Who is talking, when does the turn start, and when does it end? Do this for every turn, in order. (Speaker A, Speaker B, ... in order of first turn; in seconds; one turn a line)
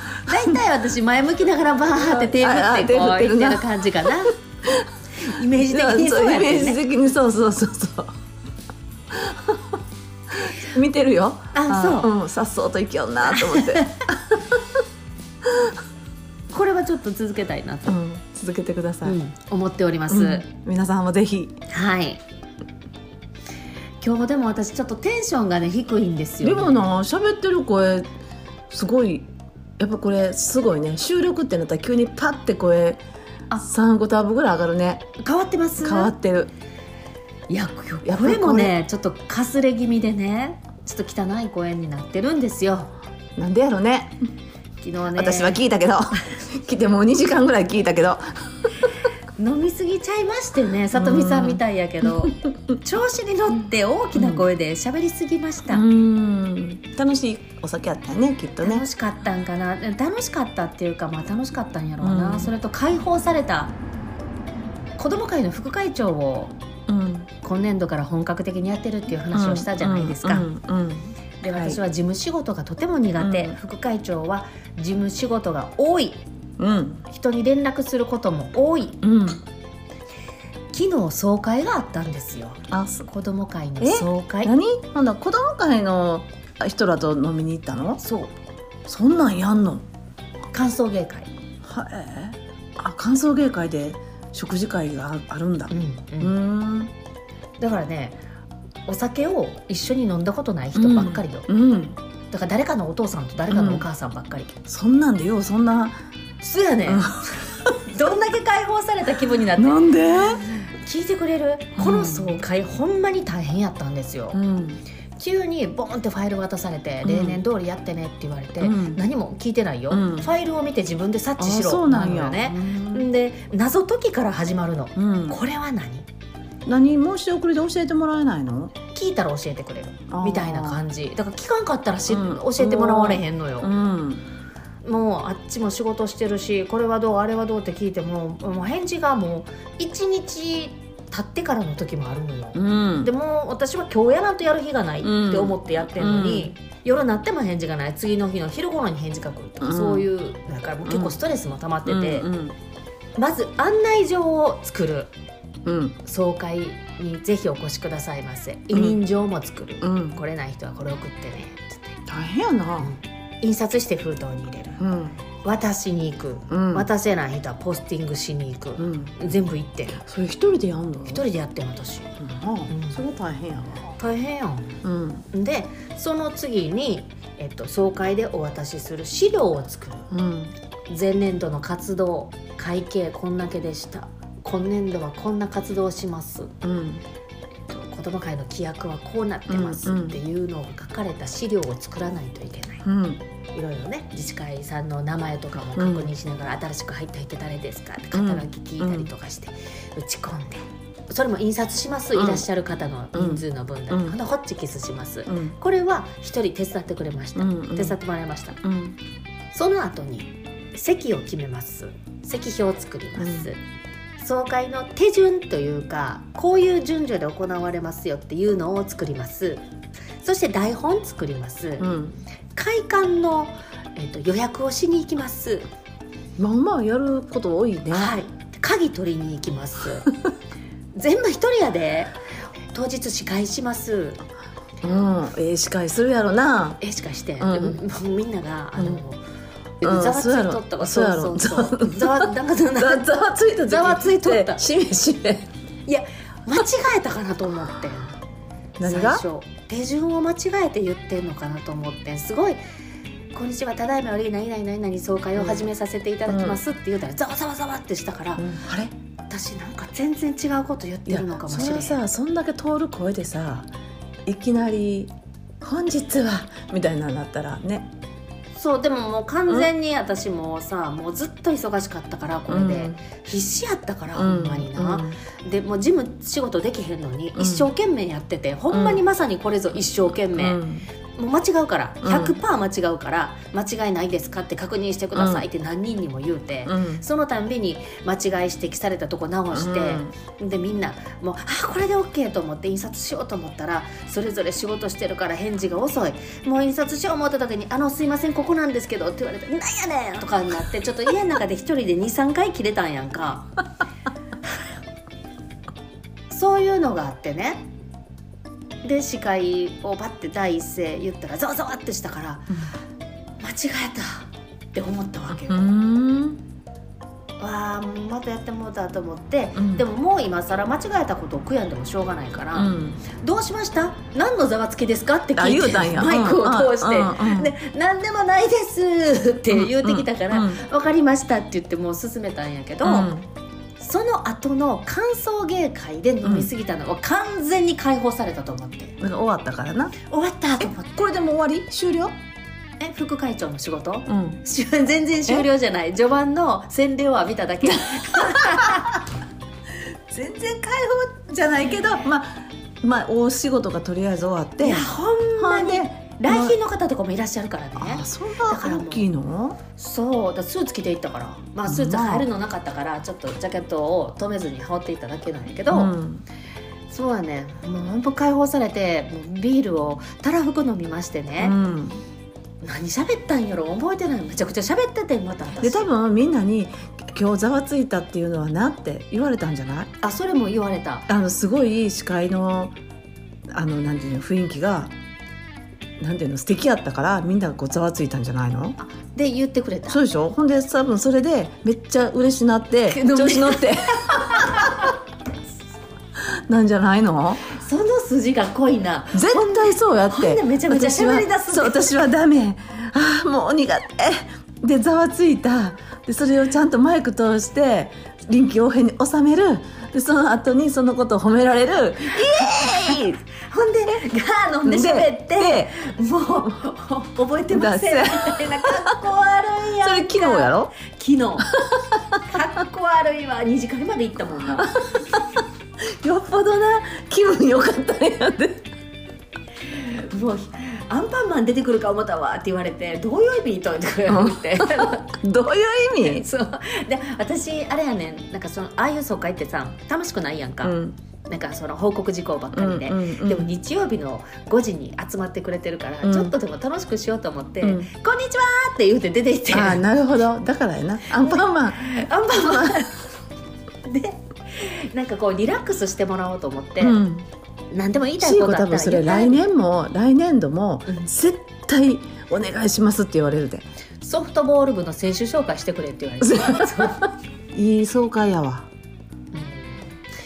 Speaker A: 0.2-4.4
Speaker B: 0.3-0.6
Speaker B: 2.0-4.9
Speaker A: 5.2-6.8
Speaker B: 5.5-8.1
Speaker B: 9.1-9.8
Speaker B: 10.3-14.6
Speaker A: 11.5-12.1
Speaker A: 13.2-13.9
Speaker B: 15.4-15.8
Speaker A: 16.5-18.0
Speaker B: 17.9-19.2
Speaker A: 19.1-20.4
Speaker B: 20.1-21.6
Speaker A: 21.7-22.2
Speaker A: 24.0-26.9
Speaker B: 26.4-28.1
Speaker B: 28.7-33.0
Speaker B: 33.6-35.1
Speaker A: 35.2-36.1
Speaker B: 35.8-36.5
Speaker A: 37.5-42.9
Speaker B: 38.0-38.8
Speaker B: 43.4-44.2
Speaker A: 44.8-45.6
Speaker B: 45.1-48.7
Speaker A: 49.4-55.9
Speaker B: 50.9-52.5
Speaker B: 54.2-54.5
Speaker B: 55.7-58.9
Speaker A: 58.6-63.8
Speaker B: 62.0-62.5
Speaker A: 65.0-66.5
Speaker B: 66.9-67.3
Speaker A: 67.4-70.5
Speaker B: 69.3-71.8
Speaker A: 71.4-76.2
Speaker B: 73.2-73.6
Speaker B: 76.6-77.0
Speaker A: 77.1-79.0
Speaker B: 79.0-79.4
Speaker A: 80.7-84.5
Speaker B: 82.7-83.1
Speaker B: 83.8-88.0
Speaker A: 88.0-88.3
Speaker B: 88.9-89.9
Speaker A: 90.5-91.3
Speaker B: 91.6-96.9
Speaker A: 95.7-96.3
Speaker A: 97.6-98.2
Speaker A: 98.9-101.5
Speaker B: 100.8-102.0
Speaker A: 102.3-104.6
Speaker B: 103.5-103.9
Speaker B: 104.7-106.0
Speaker A: 106.4-109.8
Speaker B: 106.9-107.7
Speaker B: 109.6-110.5
Speaker A: 110.6-114.4
Speaker B: 111.8-112.4
Speaker B: 114.3-114.8
Speaker A: 115.2-126.1
Speaker B: 117.0-117.4
Speaker B: 118.6-119.0
Speaker B: 119.9-120.3
Speaker B: 121.4-123.1
Speaker B: 125.0-125.4
Speaker B: 126.7-128.8
Speaker A: 128.9-133.7
Speaker B: 130.1-130.8
Speaker B: 132.1-134.2
Speaker A: 134.8-152.3
Speaker B: 142.6-143.1
Speaker B: 145.0-146.5
Speaker B: 149.6-150.1
Speaker B: 150.9-151.2
Speaker B: 151.9-152.6
Speaker A: 153.2-155.1
Speaker B: 155.7-156.0
Speaker A: 156.0-162.0
Speaker B: 158.7-159.0
Speaker B: 159.8-160.2
Speaker B: 162.1-162.9
Speaker A: 162.8-164.8
Speaker B: 164.8-165.2
Speaker A: 165.4-170.0
Speaker B: 166.5-166.9
Speaker B: 168.8-169.2
Speaker B: 170.0-171.2
Speaker A: 171.1-172.1
Speaker B: 172.2-173.9
Speaker A: 172.7-173.0
Speaker A: 174.0-174.8
Speaker B: 174.8-175.2
Speaker A: 175.3-180.1
Speaker B: 180.1-180.5
Speaker A: 180.9-186.5
Speaker B: 186.6-187.0
Speaker A: 187.7-192.8
Speaker B: 189.5-190.2
Speaker B: 192.8-193.2
Speaker A: 193.5-208.6
Speaker B: 195.8-196.1
Speaker B: 198.1-199.1
Speaker B: 202.1-202.5
Speaker B: 203.1-204.2
Speaker B: 205.3-205.6
Speaker B: 207.4-208.0
Speaker B: 208.6-209.0
Speaker A: 209.5-213.6
Speaker B: 213.2-213.5
Speaker A: 214.2-219.6
Speaker A: 220.2-221.9
Speaker B: 221.8-222.2
Speaker A: 222.5-225.7
Speaker B: 226.4-228.2
Speaker A: 227.9-230.1
Speaker A: 230.9-232.1
Speaker A: 232.7-234.2
Speaker B: 234.8-236.8
Speaker A: 236.8-239.2
Speaker B: 237.4-237.8
Speaker B: 238.8-239.0
Speaker A: 239.8-244.6
Speaker B: 239.8-245.5
Speaker A: 245.9-248.2
Speaker B: 248.8-249.2
Speaker A: 248.8-252.6
Speaker A: 253.3-258.5
Speaker B: 255.4-255.7
Speaker B: 256.3-256.6
Speaker B: 258.4-258.9
Speaker A: 259.3-262.0
Speaker B: 261.1-263.7
Speaker B: 264.3-267.9
Speaker A: 268.6-280.6
Speaker B: 272.5-273.0
Speaker B: 274.1-275.2
Speaker B: 277.4-277.7
Speaker B: 278.7-279.0
Speaker B: 280.3-280.9
Speaker A: 281.2-303.5
Speaker B: 282.0-282.4
Speaker B: 285.1-285.4
Speaker B: 286.7-287.0
Speaker B: 289.5-290.1
Speaker A: 306.3-307.7
Speaker A: 308.8-312.6
Speaker A: 313.4-315.6
Speaker B: 315.3-316.4
Speaker A: 317.4-333.1
Speaker B: 319.6-319.9
Speaker B: 322.6-323.0
Speaker B: 325.4-327.5
Speaker B: 329.5-330.6
Speaker B: 332.8-333.3
Speaker A: 333.8-339.0
Speaker B: 336.2-336.5
Speaker B: 339.0-340.0
Speaker A: 340.1-340.9
Speaker B: 340.6-342.2
Speaker A: 342.8-349.0
Speaker B: 344.1-344.4
Speaker B: 347.6-349.0
Speaker B: 350.1-356.6
Speaker A: 354.6-359.1
Speaker B: 357.8-359.6
Speaker A: 359.8-365.9
Speaker B: 361.7-362.3
Speaker B: 365.7-366.2
Speaker A: 366.9-371.6
Speaker B: 371.4-372.0
Speaker A: 372.6-375.9
Speaker B: 375.6-379.9
Speaker A: 380.0-381.1
Speaker B: 381.1-382.8
Speaker B: 383.5-384.9
Speaker B: 386.0-388.8
Speaker A: 388.8-390.0
Speaker B: 389.9-394.9
Speaker A: 392.9-394.9
Speaker B: 396.2-397.5
Speaker A: 397.5-401.9
Speaker B: 399.1-413.2
Speaker A: 412.4-421.6
Speaker B: 414.6-415.8
Speaker B: 417.5-418.9
Speaker B: 419.8-420.8
Speaker A: 422.2-424.8
Speaker B: 425.8-428.7
Speaker A: 429.7-435.1
Speaker B: 434.1-436.3
Speaker A: 436.0-449.8
Speaker B: 440.6-441.0
Speaker B: 442.5-443.5
Speaker B: 446.0-446.4
Speaker B: 447.6-447.9
Speaker B: 449.5-452.9
Speaker A: 451.1-453.0
Speaker A: 453.8-457.0
Speaker B: 456.8-457.3
Speaker A: 457.7-459.4
Speaker B: 458.2-463.7
Speaker A: 464.0-467.1
Speaker B: 466.2-468.7
Speaker A: 469.3-470.0